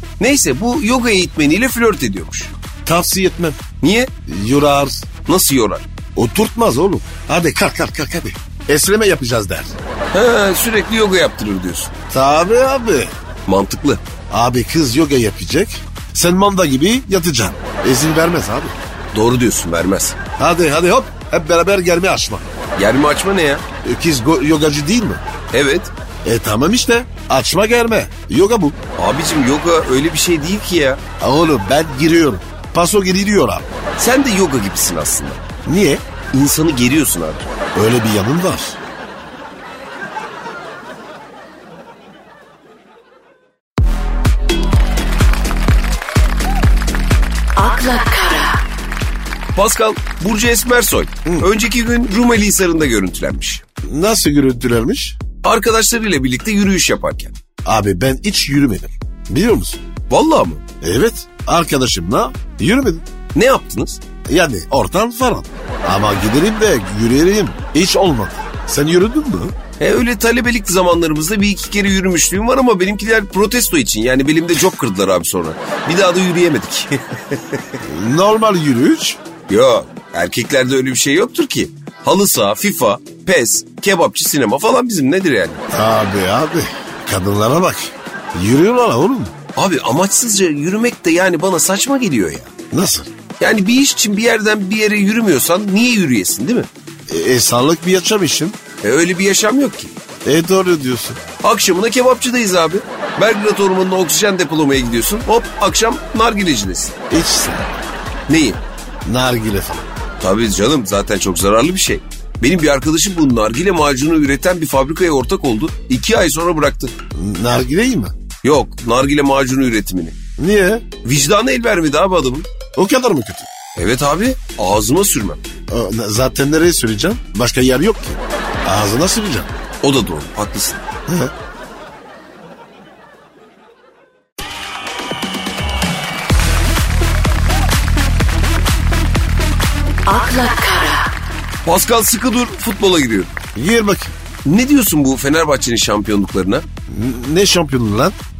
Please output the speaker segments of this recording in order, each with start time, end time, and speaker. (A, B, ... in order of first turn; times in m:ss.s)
0:00.2-0:02.5 A
0:02.9-0:03.6 B
0:03.8-0:04.1 A
0:04.3-0:05.1 B
0:05.3-0:05.9 A
0:06.2-0:09.8 B
0:10.1-0:11.9 A
0:12.1-0:13.1 B
0:13.5-0:14.0 A
0:14.3-0:18.8 B
0:19.1-0:20.2 A
0:20.4-0:22.4 B
0:22.8-0:23.6 A
0:23.8-0:25.2 B
0:25.5-0:25.9 A
0:26.2-0:28.8 B
0:29.0-0:31.0 A
0:31.2-0:33.7 B
0:34.0-0:35.4 A
0:35.7-0:36.0 B
0:36.3-0:37.5 A
0:37.8-0:38.8 B
0:47.6-0:48.6 C
0:49.6-0:53.6 A
0:53.8-0:55.2 B
0:55.4-0:57.4 A
0:57.6-0:59.8 B
1:00.1-1:00.6 A
1:00.8-1:03.0 B
1:03.4-1:04.0 A
1:04.3-1:09.5 B
1:09.8-1:17.8 A
1:17.8-1:19.2 B
1:19.5-1:25.6 A
1:25.7-1:29.3 B
1:29.6-1:32.5 A
1:32.7-1:33.1 B
1:33.4-1:36.7 A
1:37.1-1:38.6 B
1:38.8-1:39.9 A
1:40.2-1:41.2 B
1:41.4-1:47.0 A
1:47.1-1:47.8 B
1:48.3-1:48.6 A
1:49.0-1:49.9 B
1:50.2-1:56.9 A
1:57.2-1:58.1 B
1:58.4-2:00.2 A
2:00.4-2:00.9 B
2:01.0-2:02.5 A
2:02.8-2:03.5 B
2:03.8-2:05.4 A
2:05.7-2:09.5 B
2:09.8-2:10.8 A
2:20.1-2:21.1 C
2:21.6-2:23.3 A
2:23.6-2:24.2 B
2:24.4-2:26.6 A
2:26.9-2:28.2 B